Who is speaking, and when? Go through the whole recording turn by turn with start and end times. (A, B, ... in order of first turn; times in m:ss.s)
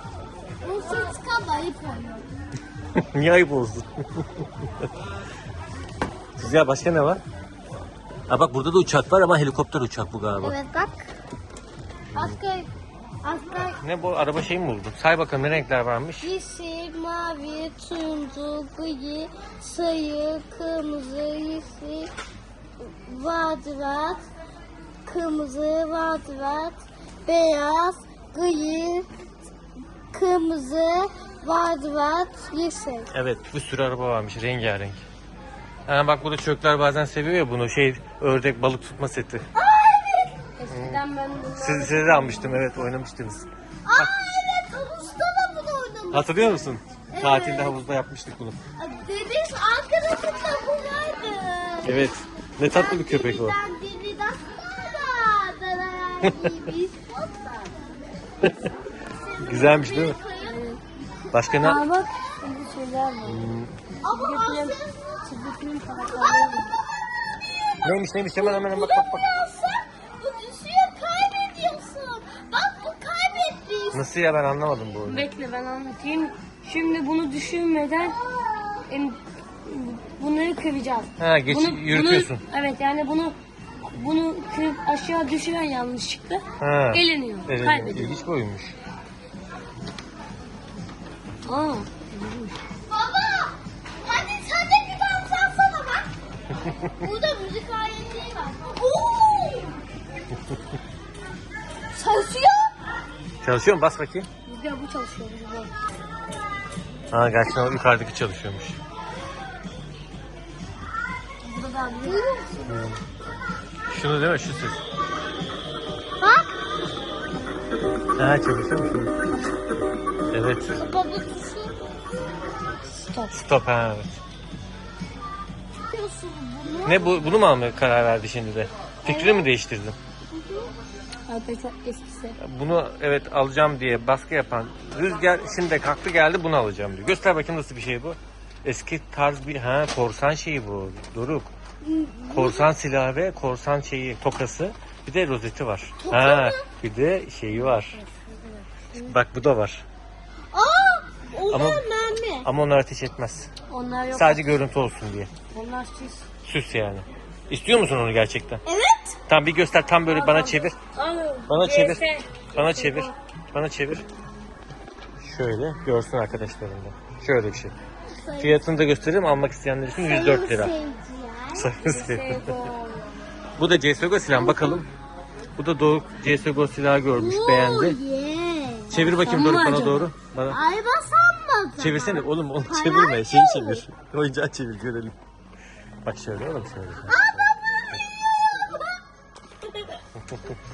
0:00.6-0:02.3 A
0:03.0-0:04.9 B
0:06.4-0:07.2 B
0:08.3-0:10.6 B
0:10.4-0:11.1 A
0:12.1-0:12.4 B
0:12.1-0:12.7 A
0:13.2-0:13.8 A
0:13.8-0:16.3 B
0:16.2-0:22.1 A
0:22.8-0:24.3 A
0:25.0-0:29.1 A
0:30.1-0:33.1 A
0:33.1-0:35.0 B
0:35.9-0:39.4 B
0:39.5-0:40.5 A
0:40.6-0:42.6 C
0:40.7-0:41.0 B
0:41.6-0:44.1 B
0:43.8-0:47.8 A
0:46.1-0:48.6 B
0:48.8-0:52.1 A
0:51.8-0:53.6 B
0:52.7-0:57.8 A
0:56.2-0:56.5 B
0:59.1-1:02.4 A
0:59.4-1:00.2 B
1:00.5-1:00.8 C
1:01.3-1:01.8 B
1:01.6-1:03.4 C
1:03.2-1:03.7 B
1:04.0-1:07.1 A
1:04.1-1:06.7 C
1:07.8-1:09.3 B
1:08.1-1:14.1 A
1:13.9-1:15.2 B
1:15.0-1:18.2 C
1:18.0-1:18.9 A
1:18.9-1:28.2 C
1:21.2-1:22.4 B
1:26.6-1:28.7 B
1:31.4-1:32.5 C
1:32.9-1:36.1 A
1:36.9-1:39.8 A
1:41.9-1:42.7 A
1:43.4-1:44.3 B
1:44.4-1:45.7 C
1:47.1-1:48.8 B
1:51.4-1:52.2 C
1:52.0-1:52.9 A
1:52.7-1:53.0 B
1:53.9-1:54.8 B
1:56.2-1:56.5 A
1:58.2-1:59.2 B
2:00.3-2:00.7 B
2:00.7-2:02.0 A
2:03.0-2:03.4 C
2:03.3-2:04.2 B
2:05.9-2:07.3 A
2:06.8-2:10.0 B
2:09.0-2:09.5 A
2:10.3-2:10.7 A
2:11.3-2:12.4 C
2:12.4-2:21.5 B
2:21.8-2:22.7 A
2:22.3-2:28.0 B
2:26.0-2:26.7 A
2:27.5-2:29.2 C
2:28.9-2:29.8 B
2:30.5-2:32.5 A
2:31.5-2:31.8 B
2:32.4-2:33.5 B
2:33.7-2:34.6 C
2:34.1-2:35.3 B
2:35.5-2:36.3 C
2:36.4-2:38.6 B
2:38.6-2:39.2 A
2:39.3-2:40.7 B
2:40.1-2:43.1 C
2:41.5-2:44.0 B
2:45.2-2:47.7 B
2:48.1-2:48.7 A
2:48.4-2:50.7 B
2:50.0-2:51.7 A
2:51.6-2:52.6 B
2:51.8-2:53.2 C
2:53.6-2:54.9 B
2:54.3-2:54.8 A
2:55.6-2:58.0 B
2:57.1-2:59.2 A
2:58.9-3:00.6 B
2:59.1-3:00.1 C
3:00.5-3:03.8 A
3:01.8-3:05.1 B
3:06.0-3:07.5 B
3:07.1-3:09.0 A